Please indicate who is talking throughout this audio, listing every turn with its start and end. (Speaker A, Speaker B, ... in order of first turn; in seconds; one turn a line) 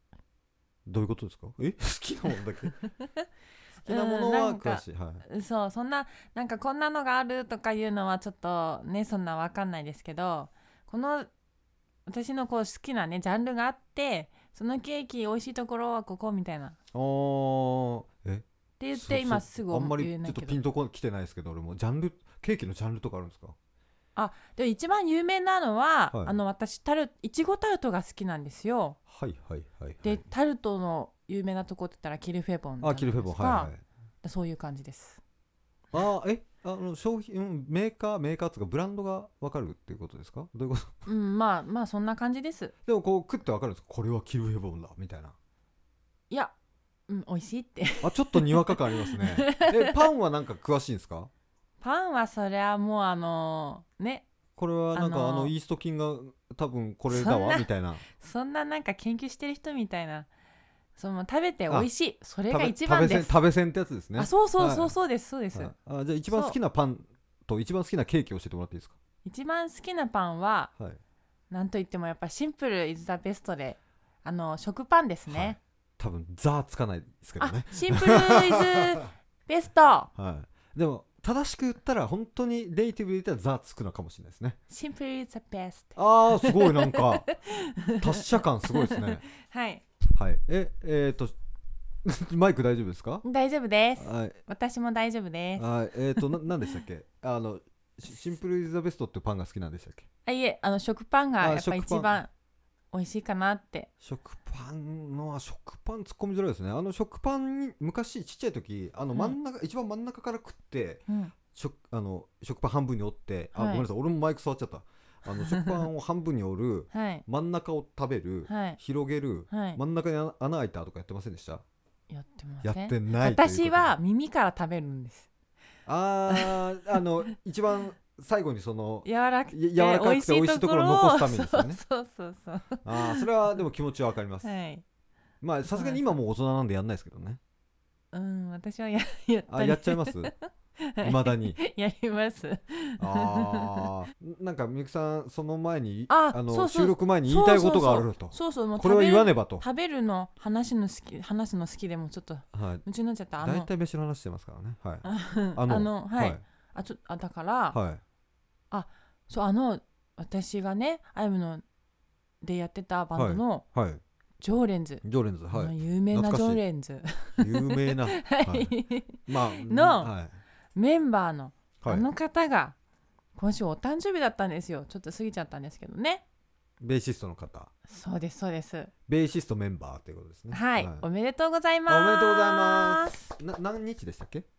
Speaker A: 0.8-2.8
Speaker A: 3.8-5.2
Speaker B: 3.9-11.3
Speaker B: 12.1-16.8
Speaker A: 16.9-23.5
Speaker B: 18.8-20.6
Speaker B: 24.1-29.0
Speaker A: 29.1-30.2
Speaker B: 30.0-33.7
Speaker A: 32.8-33.8
Speaker B: 34.2-35.2
Speaker A: 35.9-41.0
Speaker B: 41.0-42.7
Speaker A: 42.9-45.3
Speaker B: 47.1-50.0
Speaker A: 48.0-51.3
Speaker B: 51.8-54.2
Speaker A: 54.6-58.0
Speaker B: 54.9-55.5
Speaker B: 57.1-60.3
Speaker B: 61.0-63.4
Speaker A: 62.5-64.9
Speaker B: 64.2-65.7
Speaker A: 65.5-69.0
Speaker B: 66.3-66.5
Speaker B: 69.2-70.7
Speaker B: 71.5-75.6
Speaker A: 75.3-78.9
Speaker B: 77.4-80.1
Speaker A: 80.1-84.6
Speaker B: 84.7-89.8
Speaker A: 86.0-87.3
Speaker A: 87.9-89.2
Speaker A: 90.1-91.3
Speaker A: 92.0-93.2
Speaker B: 93.2-95.7
Speaker A: 94.0-94.4
Speaker A: 95.5-100.0
Speaker B: 100.2-102.3
Speaker A: 101.4-102.2
Speaker B: 102.9-103.9
Speaker A: 104.0-121.6
Speaker B: 111.1-111.3
Speaker B: 113.5-113.8
Speaker B: 116.9-117.2
Speaker B: 118.5-118.8
Speaker B: 119.5-119.8
Speaker B: 122.1-125.3
Speaker A: 122.6-123.9
Speaker A: 125.8-131.8
Speaker B: 129.0-133.3
Speaker A: 132.8-134.5
Speaker B: 134.4-134.8
Speaker A: 135.4-137.4
Speaker B: 135.7-136.0
Speaker B: 138.1-143.9
Speaker A: 139.5-140.3
Speaker A: 141.0-141.6
Speaker A: 143.0-149.6
Speaker B: 146.1-153.7
Speaker A: 152.5-152.8
Speaker A: 153.4-156.4
Speaker B: 155.0-157.8
Speaker A: 157.7-158.0
Speaker B: 158.7-161.6
Speaker B: 162.4-163.7
Speaker A: 163.2-164.0
Speaker B: 164.4-170.1
Speaker A: 165.0-166.6
Speaker A: 167.4-168.7
Speaker A: 169.2-170.4
Speaker B: 170.7-172.7
Speaker A: 171.8-172.1
Speaker B: 173.3-176.2
Speaker A: 176.8-177.7
Speaker B: 177.9-178.9
Speaker A: 179.1-181.1
Speaker B: 180.5-183.2
Speaker A: 181.9-184.4